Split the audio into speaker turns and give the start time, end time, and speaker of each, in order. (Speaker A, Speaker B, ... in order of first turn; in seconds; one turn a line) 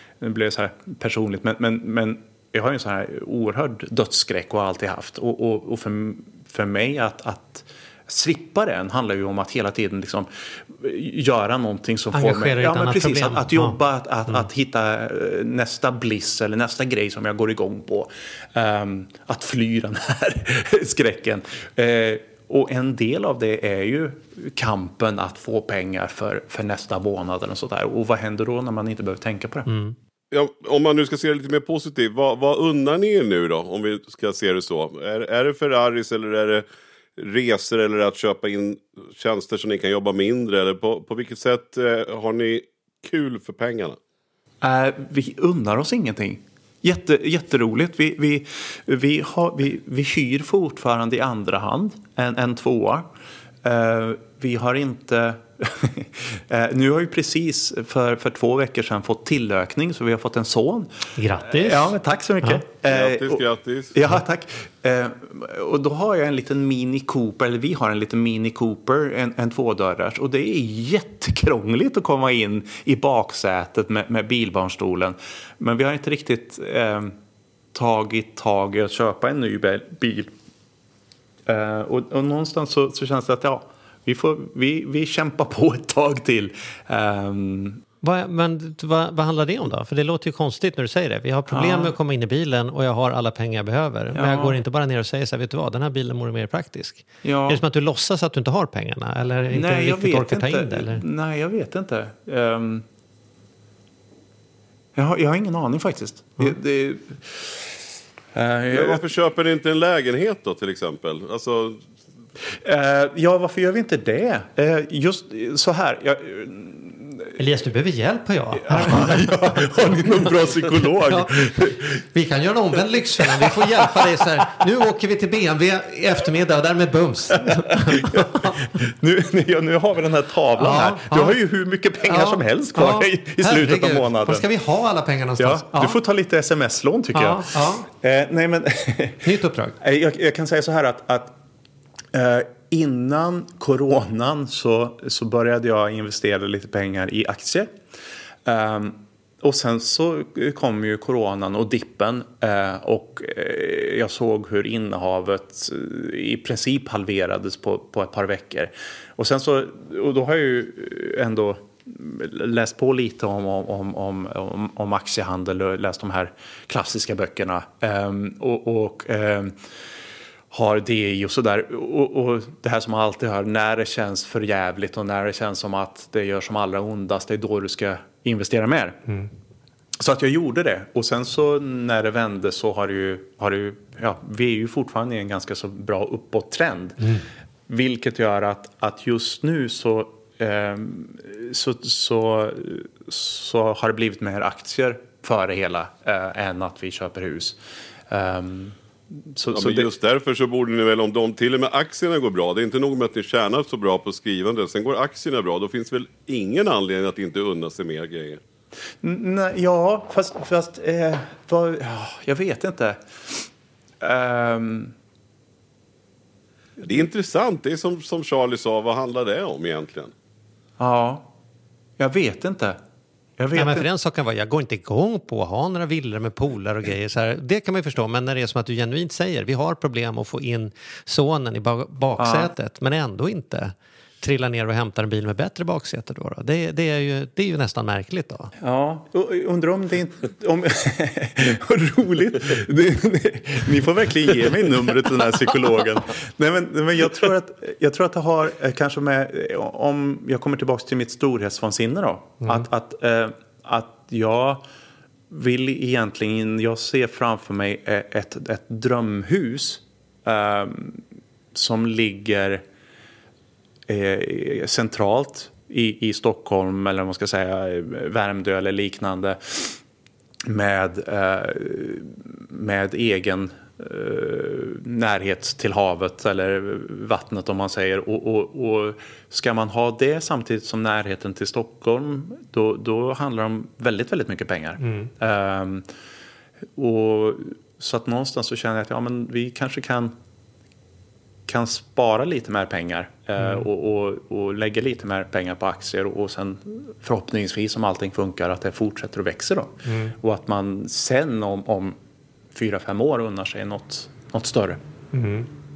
Speaker A: 0.2-29.7
Speaker B: 12.1-13.8
Speaker B: 29.7-29.9
Speaker C: 30.3-36.6
Speaker C: 37.2-44.0
Speaker A: 44.6-53.1
Speaker A: 53.6-77.2
Speaker B: 61.2-62.6
Speaker C: 62.9-64.0
Speaker A: 77.7-80.3
Speaker A: 81.5-87.8
Speaker B: 88.0-101.0
Speaker A: 91.5-91.9
Speaker A: 94.2-94.6
Speaker A: 97.2-97.6
Speaker A: 99.5-102.8
Speaker A: 105.0-107.8
Speaker A: 108.3-109.1
Speaker C: 108.7-111.9
Speaker A: 112.5-117.3
Speaker B: 117.4-119.7
Speaker A: 118.6-122.0
Speaker B: 121.0-128.7
Speaker A: 123.2-124.5
Speaker A: 127.4-134.5
Speaker B: 130.6-131.4
Speaker B: 132.1-136.0
Speaker A: 135.4-141.4
Speaker B: 137.1-137.9
Speaker B: 139.2-139.8
Speaker A: 142.1-147.8
Speaker A: 148.4-169.6
Speaker A: 170.5-179.1
Speaker A: 180.0-199.9
Speaker C: 199.5-208.4
Speaker A: 209.0-213.5
Speaker A: 214.0-214.9
Speaker C: 216.8-220.1
Speaker A: 220.8-221.3
Speaker A: 222.0-222.8
Speaker A: 223.4-223.9
Speaker B: 223.6-238.5
Speaker A: 232.2-232.5
Speaker A: 238.6-254.6
Speaker A: 255.3-262.6
Speaker A: 263.9-269.8
Speaker A: 270.5-285.9
Speaker B: 284.8-285.1
Speaker A: 286.8-290.1
Speaker A: 291.5-302.0
Speaker B: 293.4-293.7
Speaker B: 299.9-300.1
Speaker A: 302.5-304.8
Speaker B: 305.1-305.5